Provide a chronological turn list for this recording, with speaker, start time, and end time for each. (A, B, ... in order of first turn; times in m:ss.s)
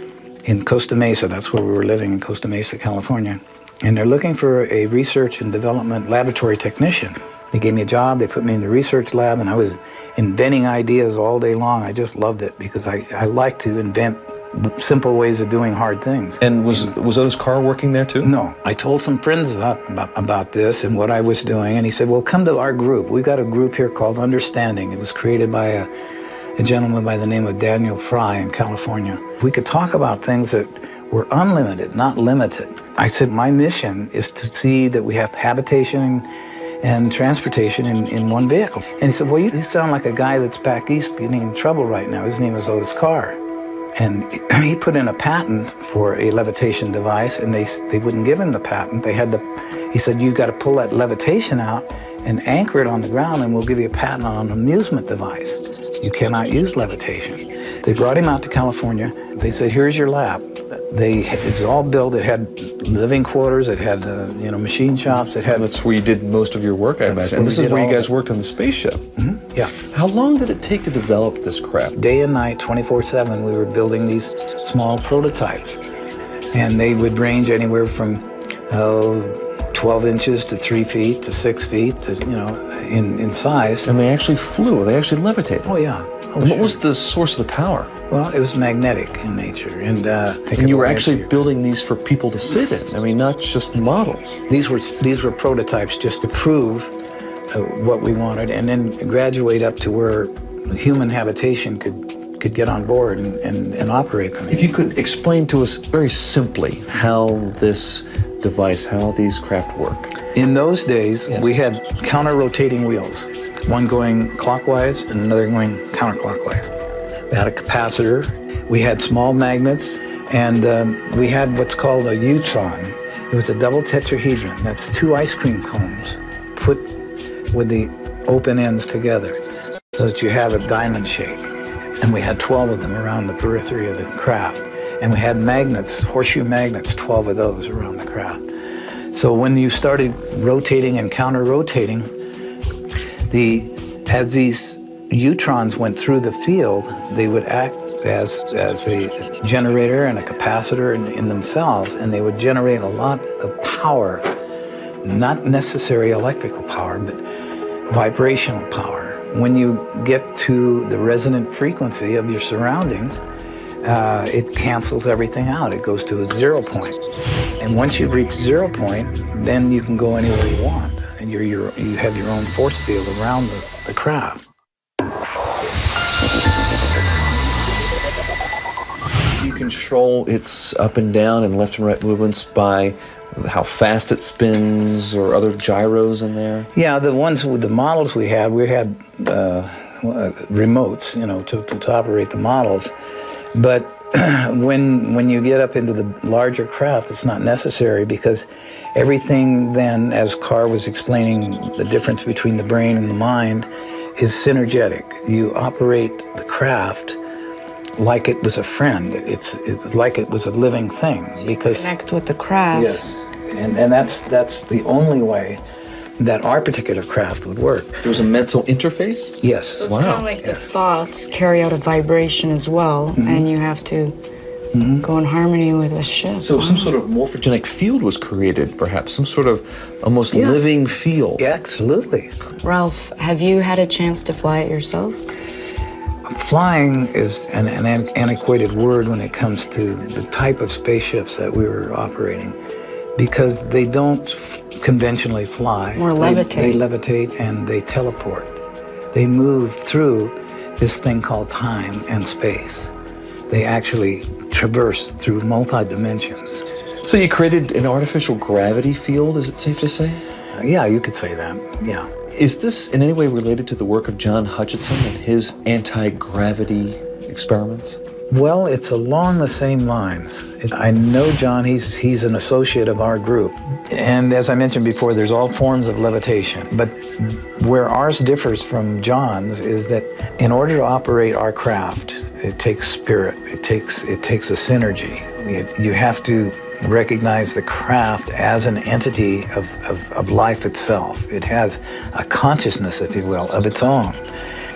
0:00.4-0:16.9 A
0:16.4-0:18.3 B
0:18.2-0:25.9 A
0:26.6-0:36.3 A
0:36.8-0:43.4 A
0:44.0-1:05.6 A
1:05.5-1:09.0 B
1:07.0-1:08.1 A
1:09.2-1:09.7 A
1:09.9-1:12.0 B
1:11.9-1:15.8 A
1:16.5-1:23.9 A
1:23.8-1:25.8 B
1:25.6-1:26.8 A
1:26.4-1:27.9 B
1:28.1-1:31.3 A
1:30.6-1:34.4 B
1:34.5-1:36.9 A
1:37.5-1:44.7 A
1:44.5-1:50.1 B
1:50.3-1:56.7 A
1:57.3-2:06.9 A
2:07.5-2:09.4 A
2:09.9-2:11.5 A
2:12.0-2:18.4 A
2:19.1-2:22.1 A
2:23.3-2:34.3 A
2:35.0-2:37.2 A
2:37.9-2:43.2 A
2:43.8-2:47.0 A
2:47.6-2:54.4 A
2:59.4-3:06.7 B
3:06.7-3:12.9 A
3:13.5-3:27.2 A
3:28.0-3:31.9 A
3:31.4-3:32.9 C
3:32.7-3:35.6 A
3:36.2-3:38.0 A
3:38.0-3:40.3 B
3:39.4-3:39.9 A
3:39.8-3:44.1 C
3:43.2-3:43.4 A
3:44.7-3:45.0 A
3:45.0-3:46.9 C
3:46.4-3:51.4 B
3:50.3-3:50.7 A
3:51.4-3:52.3 A
3:52.6-3:55.2 C
3:56.3-4:02.6 A
4:03.2-4:08.6 A
4:06.0-4:06.8 C
4:09.1-4:12.9 A
4:13.5-4:16.6 A
4:17.0-4:20.2 B
4:20.6-4:22.1 A
4:22.3-4:28.0 B
4:28.3-4:54.2 A